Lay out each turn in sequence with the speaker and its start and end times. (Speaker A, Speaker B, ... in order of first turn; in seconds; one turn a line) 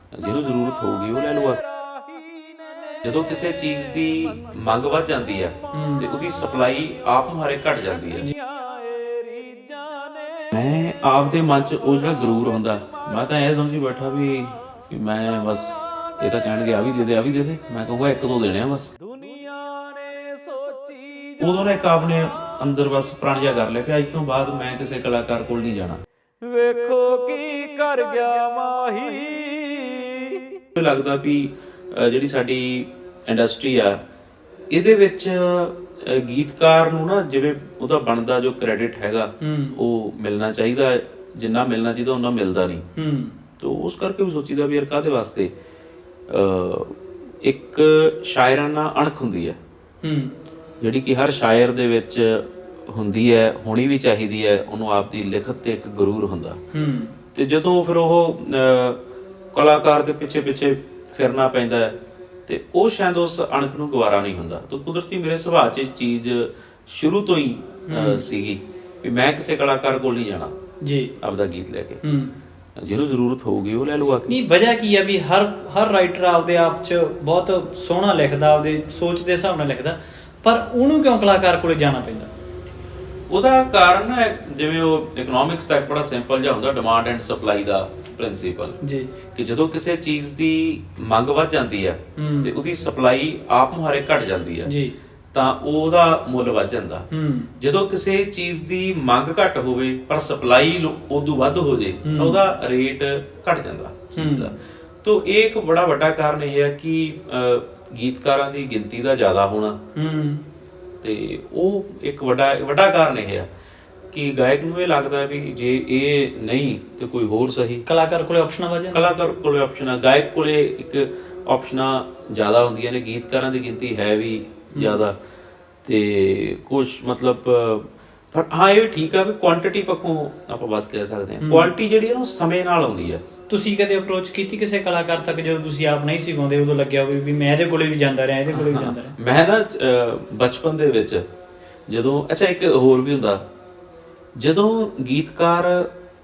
Speaker A: 0.1-1.6
Speaker B: 1.7-2.9
Speaker A: 3.0-8.3
Speaker C: 5.7-6.0
Speaker B: 8.4-10.3
Speaker A: 10.5-19.1
Speaker B: 19.1-21.4
Speaker A: 21.4-26.0
Speaker B: 26.4-30.4
Speaker A: 30.7-34.0
Speaker A: 34.7-42.8
Speaker C: 39.4-39.8
Speaker C: 42.9-43.4
Speaker A: 43.6-45.5
Speaker A: 46.3-49.6
Speaker C: 50.0-50.4
Speaker A: 50.8-56.6
Speaker C: 56.7-57.1
Speaker A: 57.3-59.0
Speaker A: 59.5-61.9
Speaker A: 62.5-70.5
Speaker C: 67.9-68.2
Speaker C: 70.8-71.1
Speaker A: 71.2-72.0
Speaker C: 72.0-72.3
Speaker A: 72.8-74.3
Speaker C: 74.2-82.3
Speaker A: 83.3-88.8
Speaker C: 88.8-89.1
Speaker A: 89.3-94.7
Speaker C: 92.2-92.5
Speaker C: 94.6-94.9
Speaker A: 95.3-97.1
Speaker C: 97.1-97.5
Speaker A: 97.6-109.8
Speaker C: 102.0-102.4
Speaker C: 104.2-104.5
Speaker C: 109.9-110.4
Speaker A: 111.0-113.5
Speaker A: 114.1-117.8
Speaker C: 117.9-119.1
Speaker A: 118.9-125.2
Speaker C: 124.7-125.0
Speaker A: 125.8-133.2
Speaker C: 131.4-131.7
Speaker C: 133.5-139.2
Speaker A: 138.5-141.2
Speaker A: 141.9-143.4
Speaker A: 144.3-145.9